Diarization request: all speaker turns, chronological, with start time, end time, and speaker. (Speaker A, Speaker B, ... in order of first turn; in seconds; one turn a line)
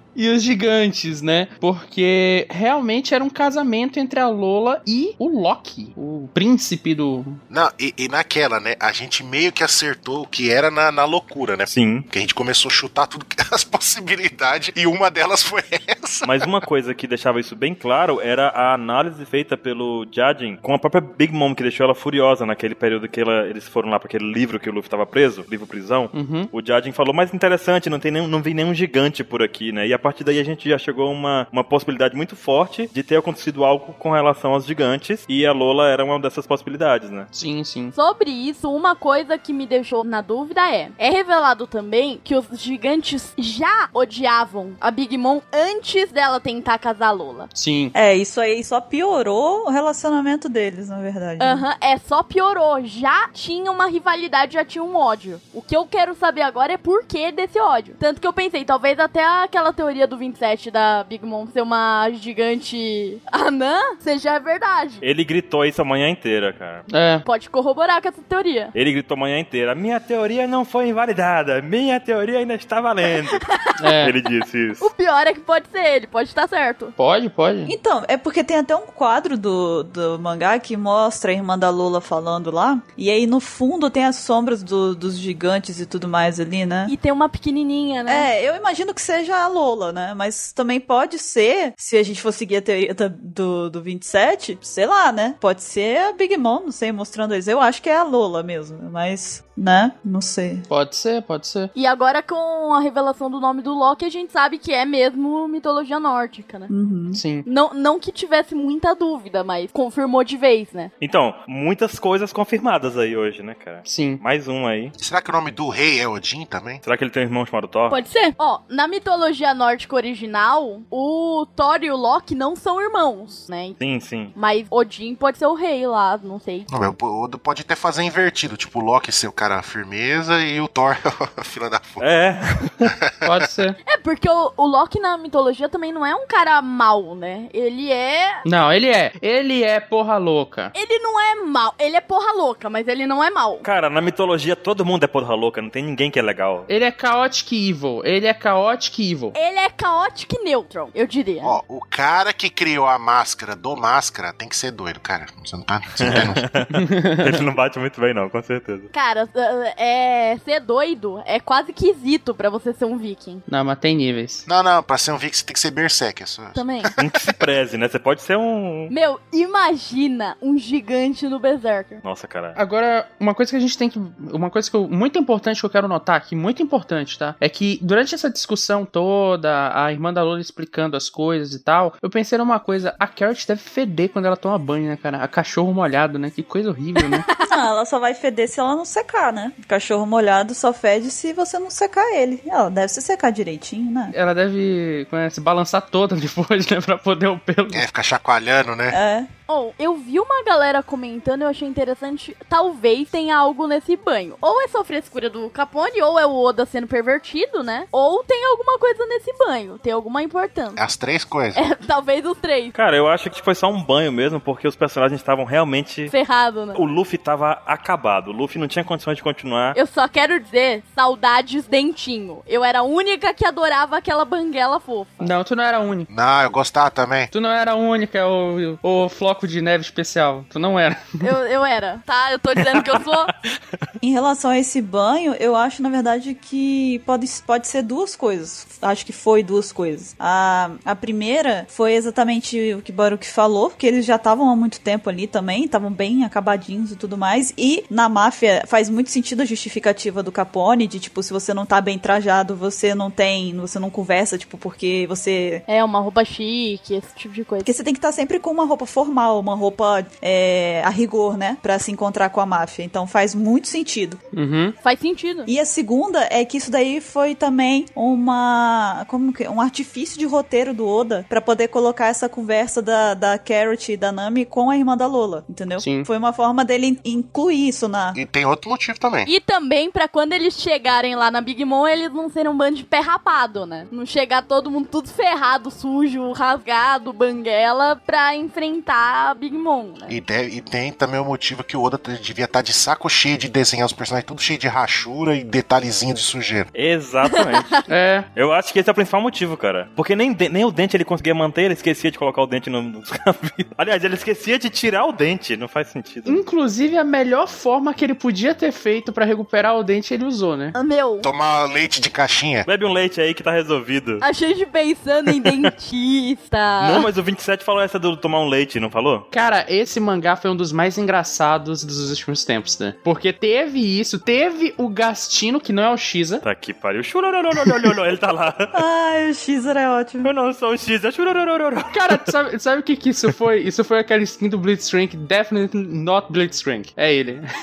Speaker A: 0.1-7.4
Speaker B: 7.5-16.5
Speaker C: 11.7-12.0
Speaker C: 16.2-37.3
Speaker A: 26.1-26.5
Speaker A: 37.3-37.9
Speaker D: 37.9-47.5
Speaker A: 47.5-47.9
Speaker E: 47.9-51.6
Speaker D: 51.4-65.0
Speaker C: 65.0-66.8
Speaker A: 66.9-67.2
Speaker D: 67.2-68.7
Speaker C: 68.7-73.5
Speaker D: 73.3-73.9
Speaker A: 73.8-74.2
Speaker C: 74.0-74.9
Speaker D: 74.8-76.9
Speaker A: 77.0-77.7
Speaker E: 77.7-86.9
Speaker D: 86.8-88.3
Speaker E: 88.1-100.7
Speaker A: 100.7-101.7
Speaker D: 101.7-106.7
Speaker E: 106.7-107.2
Speaker A: 107.1-107.5
Speaker D: 107.4-110.9
Speaker C: 111.0-114.9
Speaker A: 113.8-114.2
Speaker B: 115.0-116.8
Speaker C: 116.8-118.0
Speaker D: 117.9-123.8
Speaker C: 123.8-124.3
Speaker D: 124.3-126.7
Speaker B: 126.7-132.1
Speaker C: 132.0-132.9
Speaker B: 132.8-133.1
Speaker A: 133.2-133.8
Speaker D: 133.8-138.4
Speaker A: 138.4-140.7
Speaker D: 140.7-143.6
Speaker C: 143.6-146.7
Speaker A: 146.7-149.3
Speaker D: 149.3-151.6
Speaker B: 151.4-156.5
Speaker C: 156.0-158.9
Speaker A: 156.7-157.3
Speaker D: 158.9-163.4
Speaker A: 163.5-164.4
Speaker B: 164.4-167.4
Speaker D: 166.5-166.9
Speaker C: 167.0-168.9
Speaker D: 168.9-172.0
Speaker C: 172.0-172.6
Speaker A: 172.5-187.3
Speaker D: 187.0-187.5
Speaker E: 187.4-194.1
Speaker A: 194.1-197.8
Speaker B: 197.7-199.0
Speaker E: 198.9-199.3
Speaker D: 199.5-210.8
Speaker B: 210.8-211.6
Speaker D: 211.5-212.7
Speaker C: 212.7-216.1
Speaker D: 216.1-216.8
Speaker C: 216.7-219.8
Speaker D: 219.7-225.3
Speaker A: 225.2-226.1
Speaker B: 226.1-227.3
Speaker A: 227.3-231.3
Speaker D: 231.2-233.3
Speaker C: 232.7-233.0
Speaker E: 234.0-255.6
Speaker D: 255.7-257.7
Speaker E: 257.6-264.2
Speaker A: 264.3-264.8
Speaker D: 264.8-265.5
Speaker E: 265.5-278.2
Speaker A: 275.8-276.1
Speaker B: 278.1-279.3
Speaker D: 279.2-290.2
Speaker B: 290.1-296.7
Speaker C: 296.7-297.8
Speaker D: 297.2-297.8
Speaker A: 297.9-298.3
Speaker C: 298.3-306.4
Speaker A: 306.2-310.8
Speaker D: 310.7-311.3
Speaker B: 311.2-312.7
Speaker C: 312.6-314.2
Speaker D: 314.2-317.1
Speaker C: 316.8-319.3
Speaker A: 319.3-326.4
Speaker C: 326.4-328.8
Speaker E: 328.7-330.3
Speaker C: 330.2-332.3
Speaker A: 331.9-337.4